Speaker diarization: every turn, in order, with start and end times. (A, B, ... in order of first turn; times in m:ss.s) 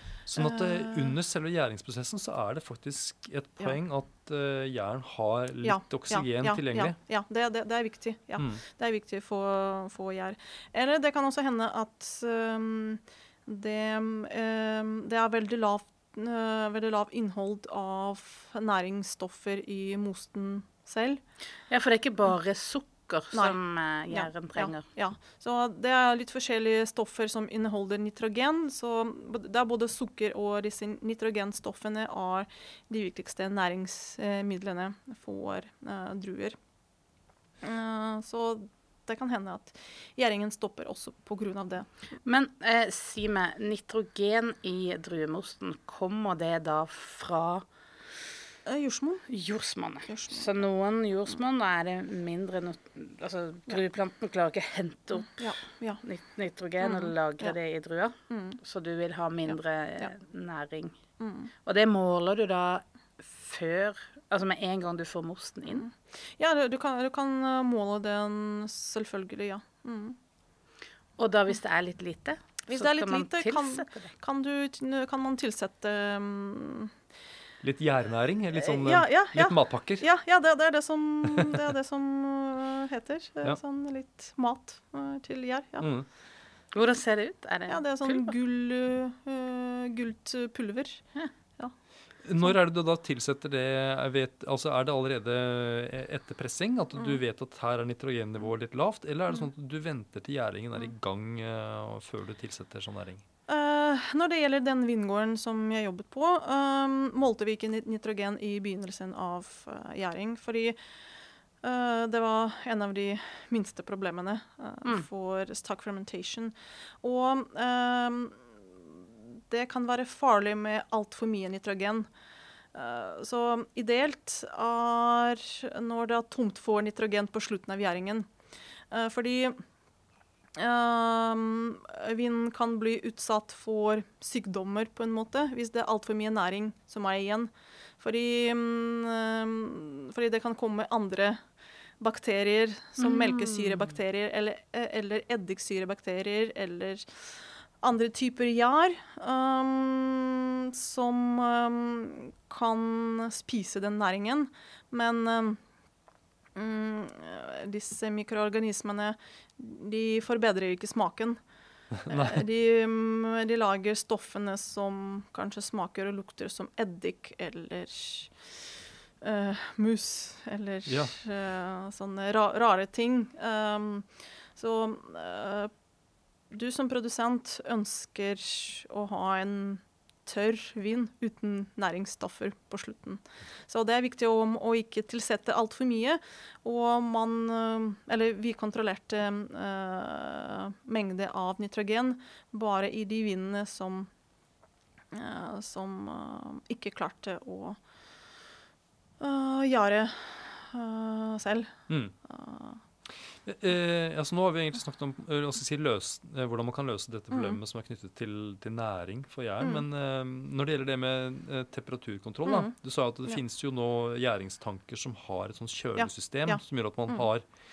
0:00.2-0:07.0 A
0:00.4-0:01.1 B
0:05.6-0:21.2 B
0:21.7-0:24.8 C
0:23.3-0:23.6 B
0:24.1-0:36.6 B
0:37.6-0:41.9 B
0:42.2-0:47.6 C
0:48.7-0:49.3 B
0:49.3-0:55.5 C
0:50.1-0:50.5 B
0:55.4-0:56.0 B
0:56.0-1:01.0 C
0:56.8-0:57.6 B
0:58.3-0:58.6 B
0:59.5-1:00.1 B
1:01.2-1:01.5 B
1:01.6-1:05.8 C
1:05.7-1:10.2 B
1:11.2-1:14.1 C
1:12.6-1:16.9 B
1:17.6-1:20.0 A
1:18.7-1:25.9 B
1:25.8-1:26.1 A
1:26.7-1:28.3 C
1:27.7-1:31.0 B
1:32.2-1:43.2 A
1:43.5-1:50.8 B
1:51.6-2:02.1 B
2:02.7-2:08.3 B
2:08.9-2:09.6 B
2:10.6-2:21.4 B
2:22.0-2:35.6 B
2:23.0-2:23.9 C
2:36.6-2:41.4 B
2:42.0-2:42.4 A
2:42.1-2:48.5 B
2:49.2-2:55.7 B
2:50.9-2:51.2 A
2:56.5-3:14.1 B
3:15.1-3:17.8 B
3:19.2-3:22.8 B
3:21.9-3:22.2 A
3:23.4-3:37.4 A
3:27.3-3:27.6 B
3:32.5-3:32.7 B
3:36.0-3:37.3 B